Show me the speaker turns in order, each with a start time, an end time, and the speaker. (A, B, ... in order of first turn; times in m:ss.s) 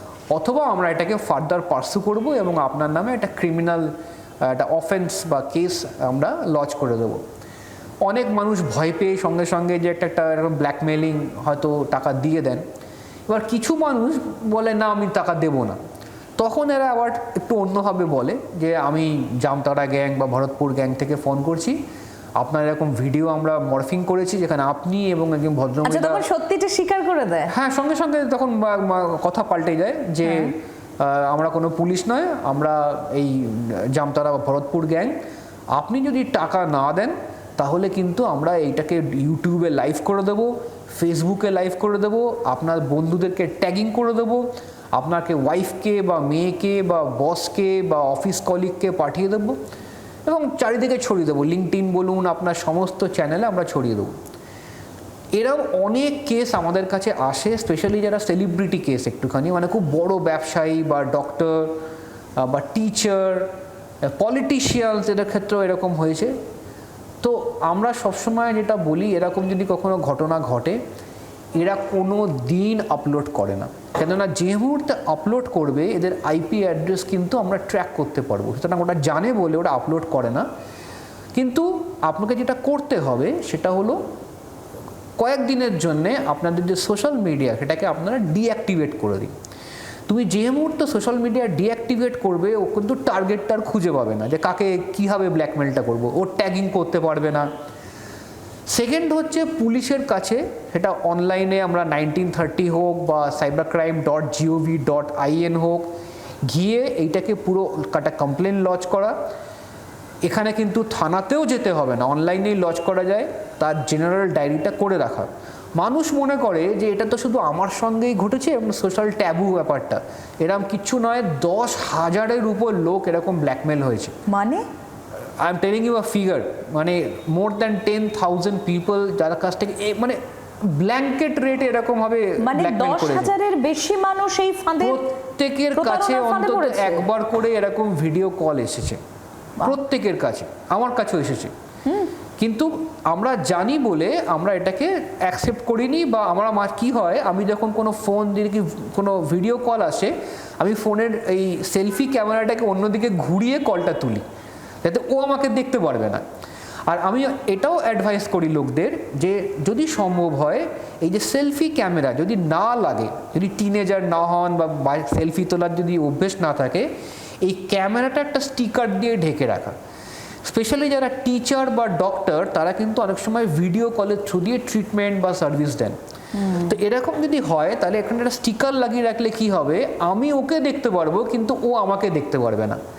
0:00.3-0:07.2 A
0:08.0-0:12.6 A
0:13.3-0:15.8 A
0:16.4-0:21.8 A
0:22.4-0:26.2 A
0:25.8-0:27.5 B
0:27.5-0:35.1 A
0:30.2-0:30.5 B
0:35.7-0:49.6 A
0:50.2-0:54.1 A
0:55.3-1:01.8 A
1:02.4-1:03.5 A
1:04.0-1:06.3 A
1:07.2-1:10.8 A
1:11.5-1:20.4 A
1:21.3-1:24.0 A
1:25.2-1:29.3 A
1:30.1-1:37.5 A
1:38.7-1:45.9 A
1:46.5-1:49.1 A
1:50.2-2:04.1 A
2:04.3-2:04.6 B
2:05.4-2:13.3 A
2:12.4-2:15.0 B
2:14.8-2:19.0 A
2:15.8-2:17.1 B
2:19.6-2:21.5 A
2:21.8-2:22.1 B
2:22.4-2:34.2 A
2:34.8-2:36.2 A
2:36.9-2:46.9 A
2:47.4-2:49.7 A
2:50.4-2:56.0 A
2:56.4-2:56.7 B
2:56.5-3:02.8 A